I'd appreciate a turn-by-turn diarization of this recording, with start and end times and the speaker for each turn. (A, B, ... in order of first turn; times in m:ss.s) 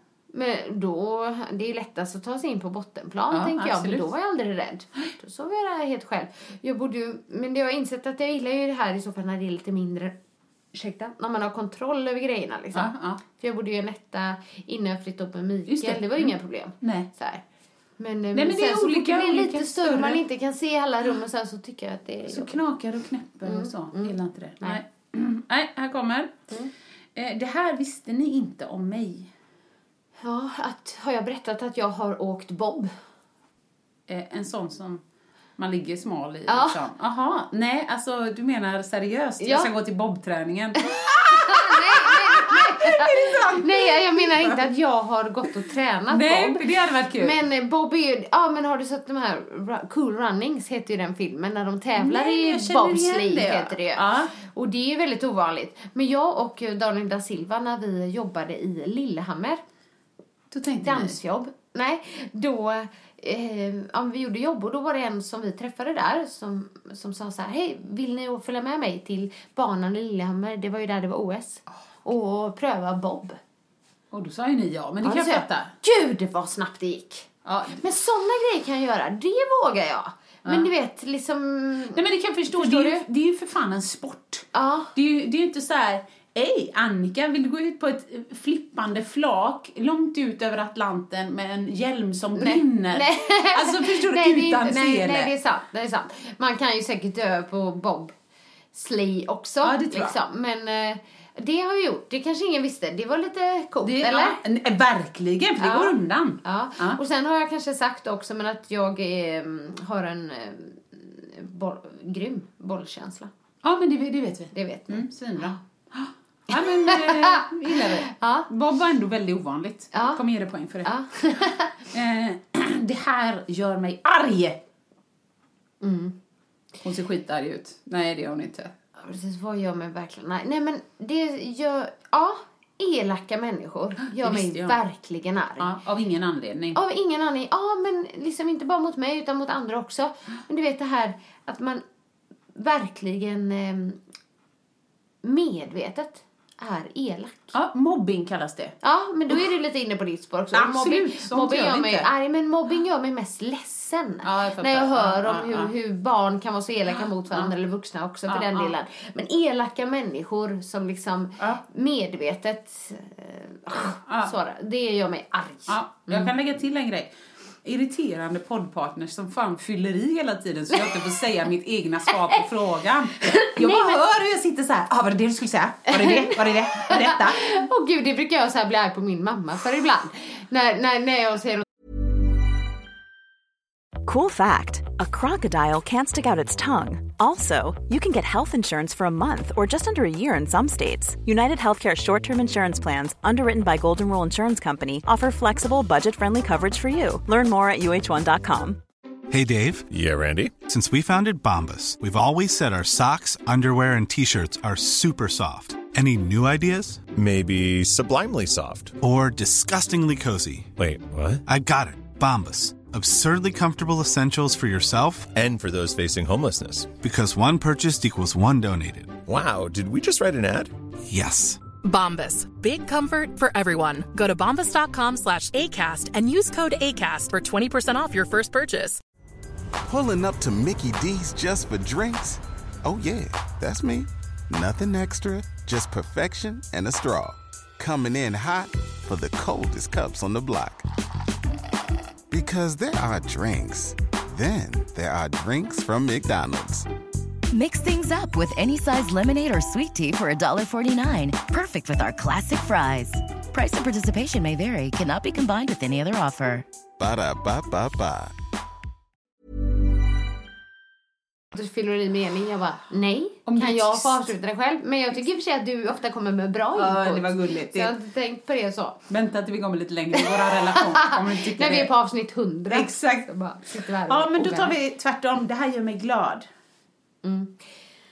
0:00.3-0:10.1 A
0:03.3-0:04.1 B
0:10.7-0:17.4 A
0:12.7-0:13.2 B
0:15.7-0:17.1 B
0:18.0-0:22.6 A
0:18.3-0:20.2 B
0:22.3-0:26.4 B
0:23.4-0:24.8 A
0:27.2-0:29.3 B
0:30.2-0:32.9 A
0:34.1-0:35.0 B
0:35.6-0:44.6 B
0:36.5-0:36.8 A
0:39.4-0:39.7 A
0:40.8-0:46.6 A
0:46.1-0:47.4 B
0:47.2-0:59.6 A
0:51.9-0:54.3 B
1:00.5-1:01.2 B
1:00.8-1:13.4 A
1:14.1-1:15.7 B
1:15.0-1:23.0 A
1:17.4-1:17.8 B
1:21.9-1:35.3 B
1:24.5-1:24.9 A
1:32.4-1:38.1 A
1:38.7-1:44.4 A
1:39.6-1:40.2 B
1:43.8-1:47.0 B
1:45.6-1:53.3 A
1:53.6-2:01.0 B
1:54.5-1:55.1 A
1:56.5-1:58.5 A
1:59.9-2:00.2 A
2:00.8-2:01.7 A
2:01.9-2:04.6 B
2:05.8-2:06.2 A
2:06.8-2:08.7 B
2:09.0-2:15.8 A
2:14.1-2:14.8 B
2:15.6-2:16.8 B
2:16.7-2:21.8 A
2:22.5-2:24.0 A
2:25.2-2:27.5 A
2:27.5-2:28.7 B
2:28.8-2:46.3 A
2:30.5-2:32.1 B
2:34.2-2:35.7 B
2:37.0-2:37.5 B
2:38.3-2:38.7 B
2:44.1-2:44.3 B
2:45.7-2:47.1 B
2:47.6-2:57.6 B
2:53.2-2:54.0 A
2:55.9-3:01.6 A
3:04.0-3:18.8 C
3:19.3-3:19.9 D
3:19.9-3:20.6 E
3:20.6-3:27.1 D
3:27.1-3:29.0 E
3:29.0-3:30.7 D
3:30.8-3:31.4 E
3:31.4-3:35.3 D
3:35.3-3:36.9 E
3:37.0-3:39.2 D
3:39.2-3:40.7 E
3:41.1-3:41.6 D
3:41.8-3:49.0 F
3:49.9-4:00.8 G
4:02.3-4:06.8 G
4:07.5-4:16.6 H
4:17.0-4:18.3 G
4:21.5-4:29.0 A
4:23.5-4:24.3 B
4:26.7-4:27.9 B
4:29.1-4:31.9 B
4:30.3-4:34.7 A
4:32.7-4:36.5 B
4:37.2-4:37.7 A